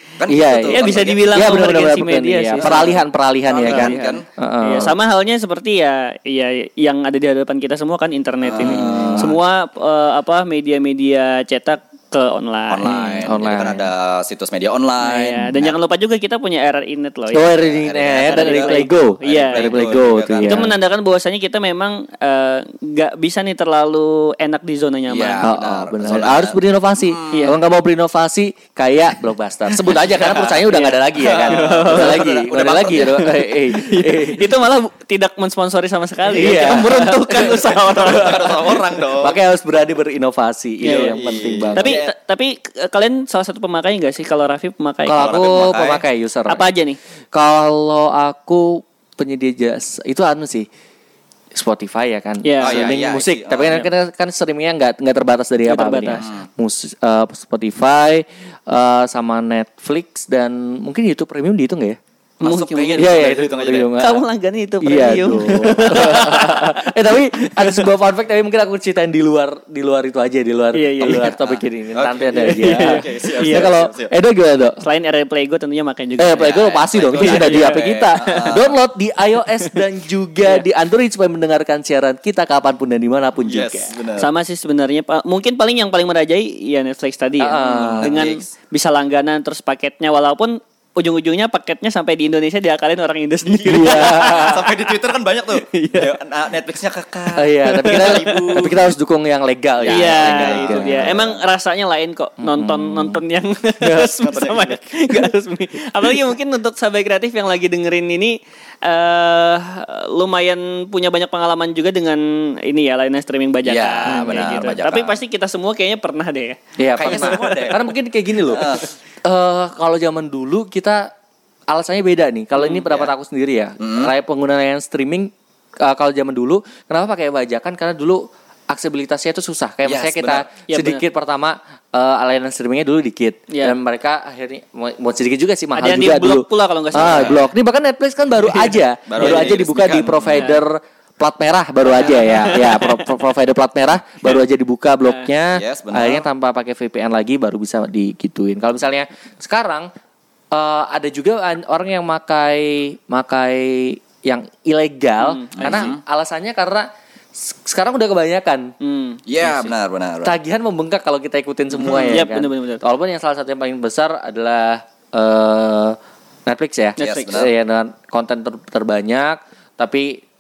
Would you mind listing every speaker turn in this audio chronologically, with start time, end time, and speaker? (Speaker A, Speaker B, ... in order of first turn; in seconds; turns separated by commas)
Speaker A: 0.2-1.5, Speaker B: 0.3-4.9, Speaker C: 0.7-3.0, Speaker A: 2.6-4.2, Speaker C: 3.7-13.1, Speaker A: 8.4-9.4, Speaker B: 8.6-9.3, Speaker A: 12.7-15.8, Speaker B: 12.9-13.8, Speaker C: 15.0-17.5, Speaker B: 17.3-20.7, Speaker A: 17.6-20.7, Speaker C: 18.2-19.8, Speaker C: 20.4-25.5, Speaker A: 25.1-27.5, Speaker B: 25.4-34.4, Speaker C: 27.3-27.6, Speaker A: 30.2-30.6, Speaker C: 30.7-32.3, Speaker A: 31.2-33.3, Speaker C: 33.7-38.8, Speaker B: 36.3-38.2, Speaker A: 37.4-39.4, Speaker B: 39.2-42.0, Speaker C: 40.8-41.2, Speaker A: 40.9-42.1, Speaker C: 41.8-45.3, Speaker B: 45.1-46.6, Speaker A: 45.1-46.0, Speaker C: 46.5-47.0, Speaker B: 47.3-50.7, Speaker B: 51.5-62.0, Speaker C: 52.4-52.9, Speaker A: 52.6-53.8, Speaker C: 55.6-56.3, Speaker C: 62.4-63.2, Speaker A: 62.4-63.9, Speaker B: 63.0-64.2, Speaker C: 64.0-66.9, Speaker B: 64.8-74.8, Speaker C: 67.4-67.9, Speaker C: 70.7-71.4, Speaker A: 71.4-74.1, Speaker C: 72.4-73.7, Speaker C: 74.8-76.6, Speaker B: 76.2-83.9, Speaker A: 76.4-78.8, Speaker C: 77.2-77.8, Speaker A: 83.4-84.3, Speaker C: 84.2-94.8, Speaker B: 87.4-88.2, Speaker A: 87.6-88.5, Speaker A: 93.5-98.8, Speaker B: 93.7-94.6, Speaker C: 95.7-96.1, Speaker B: 97.4-101.2, Speaker C: 97.8-98.6, Speaker A: 99.8-101.4, Speaker C: 99.9-117.4, Speaker B: 102.4-103.2, Speaker B: 103.8-104.1, Speaker A: 104.2-104.8, Speaker A: 113.6-115.2, Speaker B: 114.1-114.5, Speaker B: 116.8-121.1, Speaker A: 117.0-117.9, Speaker A: 118.5-118.9, Speaker B: 121.7-149.9, Speaker A: 123.8-124.1, Speaker A: 129.8-130.5, Speaker C: 130.7-131.0, Speaker C: 133.5-133.8, Speaker C: 135.8-137.4, Speaker A: 137.0-137.4, Speaker A: 139.1-140.5, Speaker C: 139.2-139.5, Speaker C: 140.3-140.6, Speaker C: 142.0-143.1, Speaker A: 145.5-146.3, Speaker B: 150.5-158.7, Speaker C: 155.2-155.9, Speaker A: 155.6-156.0, Speaker C: 158.8-159.2, Speaker A: 159.3-160.4, Speaker B: 160.2-170.2, Speaker A: 161.8-162.2, Speaker C: 162.0-162.8, Speaker C: 167.0-167.4, Speaker A: 167.0-167.5